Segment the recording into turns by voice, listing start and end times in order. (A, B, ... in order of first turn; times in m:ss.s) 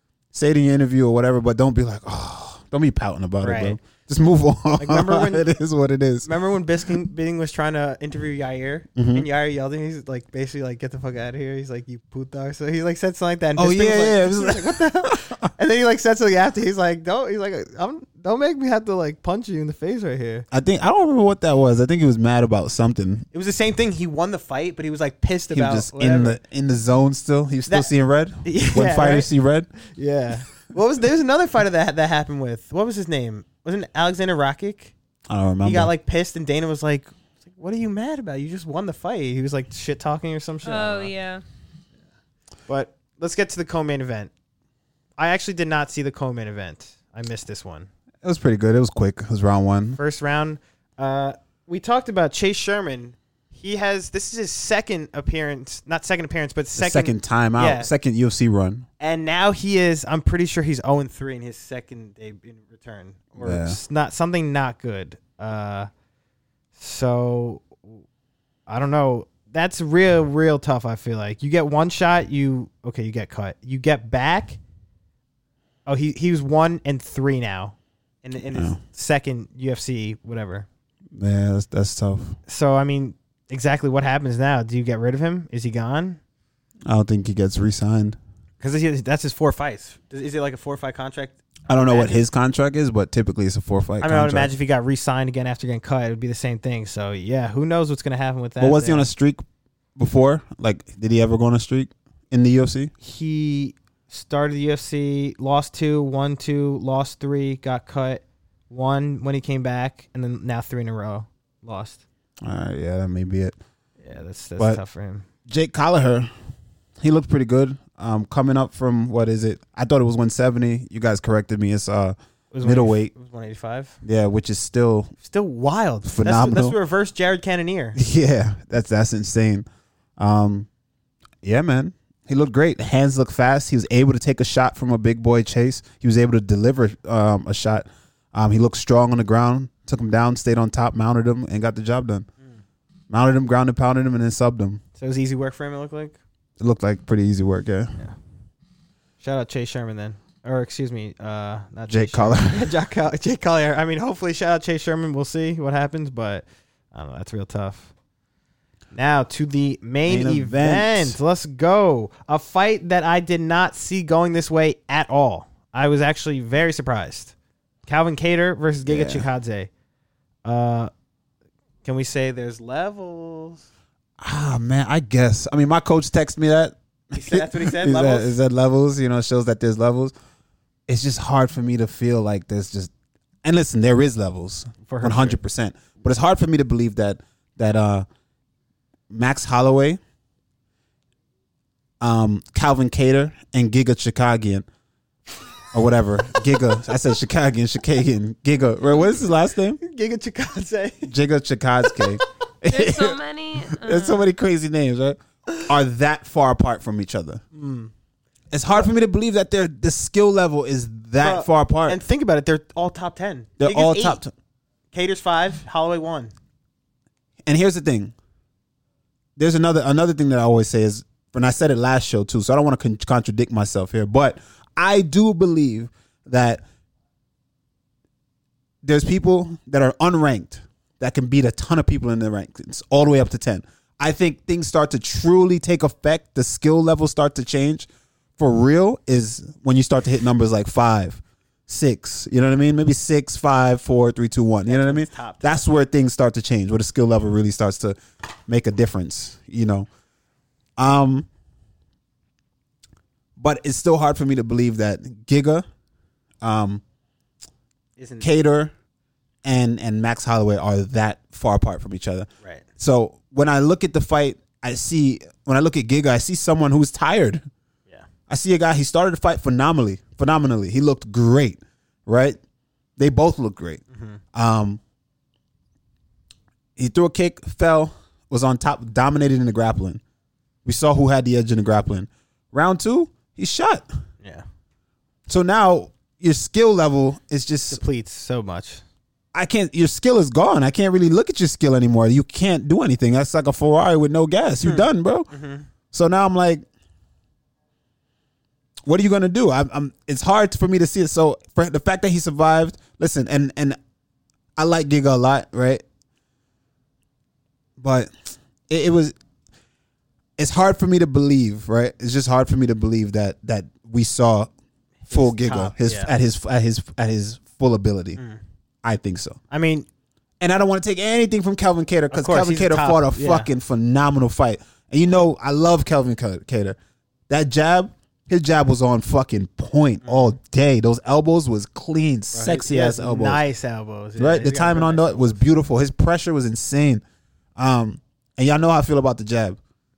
0:00.3-0:06.3 A
0:03.4-0:03.8 B
0:04.8-0:05.5 B
0:06.2-0:20.5 B
0:09.0-0:09.3 A
0:13.6-0:15.4 A
0:20.5-0:23.3 A
0:23.3-0:26.4 B
0:25.5-0:29.7 A
0:28.4-0:29.3 B
0:29.9-0:34.9 B
0:35.3-0:35.9 A
0:35.6-0:41.1 B
0:40.6-0:41.4 C
0:42.7-0:44.3 B
0:45.2-0:47.9 B
0:48.2-0:50.0 A
0:50.0-0:57.9 B
0:56.8-0:58.9 A
0:59.0-1:05.9 B
1:03.4-1:03.8 A
1:06.8-1:08.0 B
1:08.7-1:14.6 B
1:15.9-1:20.7 B
1:18.5-1:18.8 A
1:21.2-1:22.4 A
1:22.5-1:26.2 B
1:26.9-1:28.2 A
1:28.6-1:32.2 B
1:31.7-1:34.5 A
1:34.0-1:39.1 B
1:38.6-1:39.4 A
1:40.0-1:42.9 A
1:43.0-1:52.0 B
1:52.4-1:53.6 A
1:54.0-1:55.3 B
1:55.5-1:56.3 A
1:57.0-2:03.1 A
2:02.5-2:04.0 B
2:04.0-2:05.1 A
2:05.2-2:08.0 B
2:06.0-2:06.8 A
2:08.0-2:09.7 A
2:10.2-2:10.7 A
2:11.4-2:22.3 A
2:23.1-2:24.8 A
2:25.0-2:26.2 B
2:26.6-2:28.0 A
2:29.2-2:37.9 B
2:31.9-2:32.7 A
2:38.9-2:47.3 B
2:40.1-2:41.2 A
2:47.9-2:49.7 B
2:48.8-2:49.3 A
2:50.4-2:50.9 B
2:51.8-2:53.6 B
2:54.2-3:00.1 A
2:57.1-2:58.3 B
3:00.9-3:02.9 A
3:03.4-3:08.1 A
3:04.8-3:05.4 B
3:09.1-3:10.0 A
3:12.0-3:14.7 A
3:15.7-3:19.8 A
3:19.8-3:21.1 B
3:21.0-3:27.4 A
3:22.7-3:24.3 C
3:27.5-3:27.9 B
3:28.5-3:32.0 A
3:31.2-3:34.2 B
3:33.6-3:34.3 A
3:34.9-3:36.3 B
3:37.4-3:38.1 A
3:39.4-3:46.6 A
3:48.8-4:09.9 A
4:04.7-4:05.6 B
4:10.8-4:11.3 A
4:13.4-4:15.6 A
4:16.4-4:16.8 A
4:18.0-4:18.3 B
4:18.2-4:18.7 A
4:19.4-4:22.3 A
4:22.8-4:27.4 A
4:28.3-4:32.4 A
4:33.0-4:33.8 A
4:33.9-4:34.2 B
4:34.3-4:34.8 A
4:36.8-4:40.0 A
4:40.6-4:43.9 A
4:45.3-4:47.8 A
4:47.7-4:48.8 B
4:49.3-4:55.3 A
4:54.6-4:55.7 B
4:55.9-4:56.6 A
4:58.9-5:03.8 A
5:04.6-5:05.8 A
5:07.8-5:08.1 A
5:08.7-5:09.1 A
5:10.4-5:14.5 A
5:15.1-5:16.1 B
5:15.1-5:18.2 A
5:18.8-5:19.4 A
5:19.5-5:19.9 B
5:20.4-5:26.8 A
5:22.1-5:23.5 B
5:27.3-5:33.4 A
5:30.0-5:30.4 B
5:32.3-5:35.4 B
5:34.2-5:37.0 A
5:37.6-5:39.6 A